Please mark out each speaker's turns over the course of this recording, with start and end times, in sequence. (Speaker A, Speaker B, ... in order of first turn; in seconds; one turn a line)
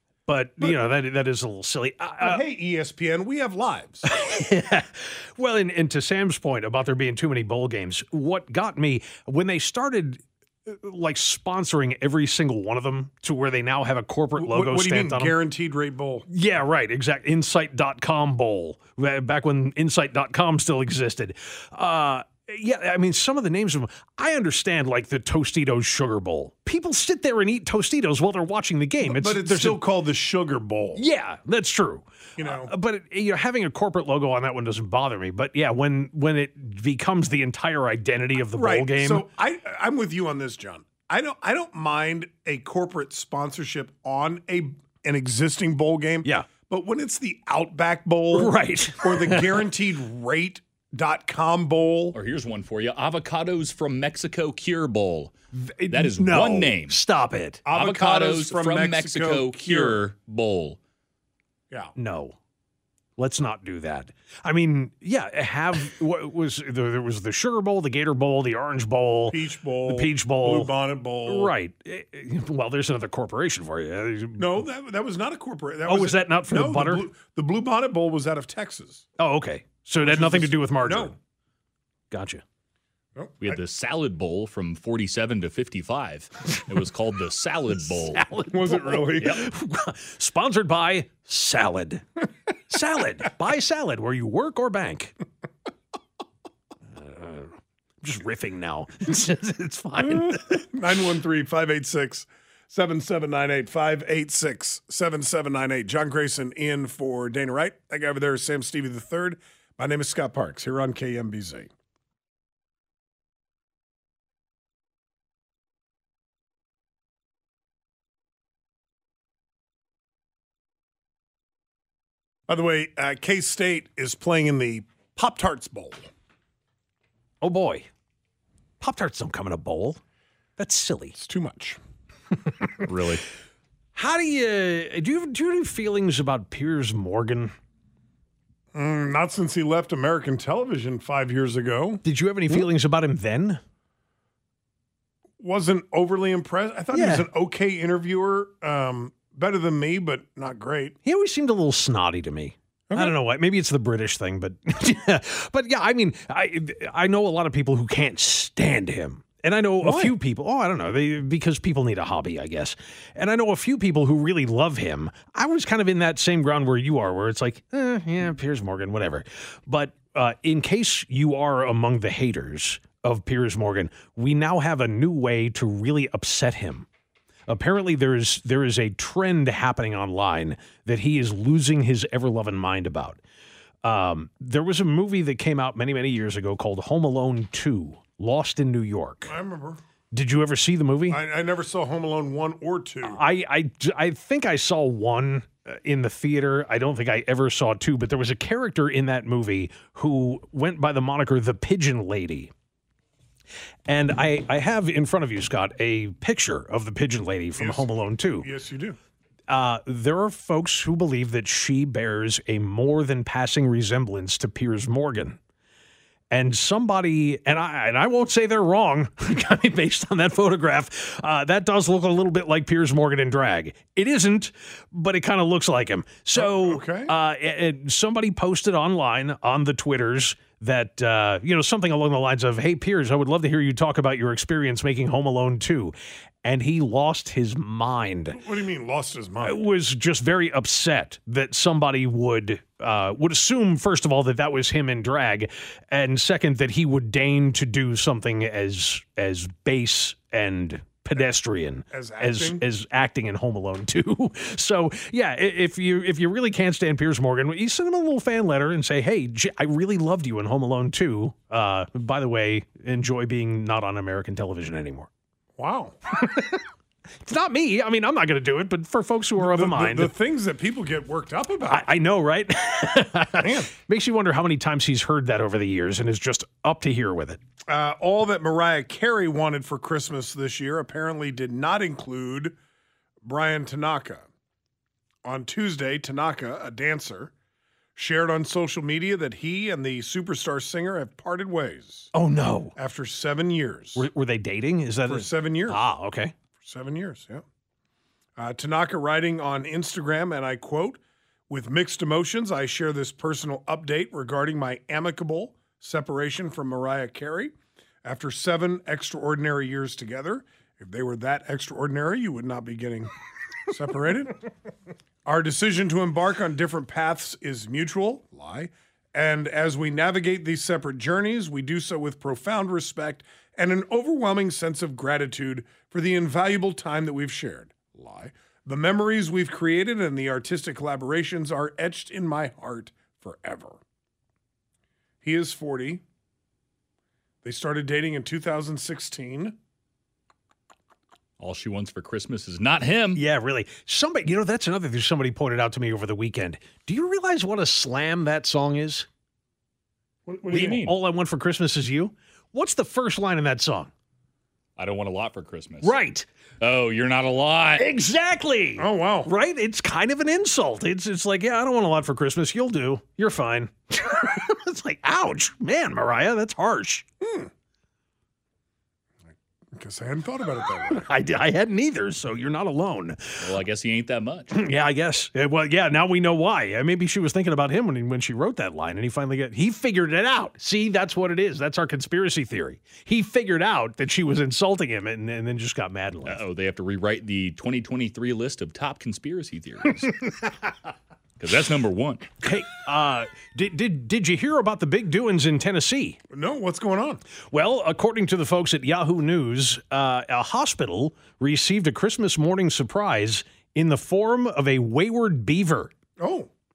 Speaker A: 0.3-2.4
Speaker B: 2.2-4.0
Speaker A: 4.0-15.3
Speaker B: 14.3-16.3
Speaker A: 16.3-29.8
Speaker B: 29.0-31.0
Speaker A: 30.9-39.3
Speaker B: 32.4-32.7
Speaker B: 38.5-52.1
Speaker A: 48.3-49.6
Speaker C: 52.1-55.3
Speaker A: 55.5-57.6
Speaker C: 55.9-57.0
Speaker B: 57.6-60.0
Speaker C: 57.7-60.8
Speaker A: 62.0-62.4
Speaker A: 63.2-70.7
Speaker B: 69.3-71.5
Speaker A: 71.2-74.5
Speaker B: 74.4-79.0
Speaker A: 75.8-77.0
Speaker A: 79.2-81.1
Speaker B: 80.0-81.2
Speaker A: 82.1-82.4
Speaker B: 83.2-83.6
Speaker C: 83.4-88.2
Speaker A: 87.9-92.1
Speaker B: 88.5-89.4
Speaker A: 92.7-95.1
Speaker A: 96.9-100.7
Speaker B: 100.0-111.7
Speaker B: 122.5-126.1
Speaker A: 127.4-127.9
Speaker A: 128.8-130.0
Speaker A: 130.6-131.2
Speaker B: 131.2-131.8
Speaker C: 132.8-133.2
Speaker A: 133.9-137.5
Speaker B: 138.7-142.6
Speaker A: 142.0-143.6
Speaker B: 145.4-151.0
Speaker A: 146.9-147.3
Speaker A: 151.0-176.9
Speaker B: 152.9-153.2
Speaker B: 159.8-160.2
Speaker A: 177.5-183.2
Speaker A: 183.8-189.3
Speaker B: 189.3-189.8
Speaker A: 190.1-191.2
Speaker B: 191.1-193.2
Speaker A: 193.0-202.5
Speaker A: 203.9-208.5
Speaker B: 207.6-209.0
Speaker A: 209.5-215.4
Speaker A: 216.3-238.4
Speaker B: 226.3-227.1
Speaker B: 238.3-239.6
Speaker A: 239.4-265.1
Speaker B: 251.9-252.6
Speaker B: 265.6-266.0
Speaker A: 266.2-266.6
Speaker A: 267.2-270.1
Speaker B: 269.4-271.9
Speaker A: 271.7-277.4
Speaker B: 273.4-273.7
Speaker B: 277.7-282.6
Speaker B: 283.2-284.3
Speaker B: 285.2-287.3
Speaker B: 287.9-292.1
Speaker A: 292.1-292.7
Speaker B: 292.8-294.1
Speaker A: 293.9-296.3
Speaker B: 295.1-295.9
Speaker B: 296.6-297.4
Speaker B: 298.4-313.1
Speaker B: 313.7-314.4
Speaker B: 315.2-333.8
Speaker B: 335.2-336.0
Speaker B: 337.4-339.6
Speaker C: 341.4-343.2
Speaker A: 343.1-349.1
Speaker B: 350.3-350.8
Speaker C: 350.4-350.9
Speaker A: 350.5-353.9
Speaker C: 354.8-355.9
Speaker A: 355.8-356.3
Speaker C: 356.6-357.8
Speaker A: 357.8-367.1
Speaker B: 358.8-359.3
Speaker B: 367.2-367.5
Speaker B: 369.7-371.0
Speaker A: 370.9-373.4
Speaker C: 373.4-374.5
Speaker A: 374.5-386.4
Speaker C: 386.2-390.4
Speaker C: 391.4-392.4
Speaker A: 392.4-396.2
Speaker B: 396.3-397.2
Speaker A: 397.5-405.9
Speaker B: 406.2-406.5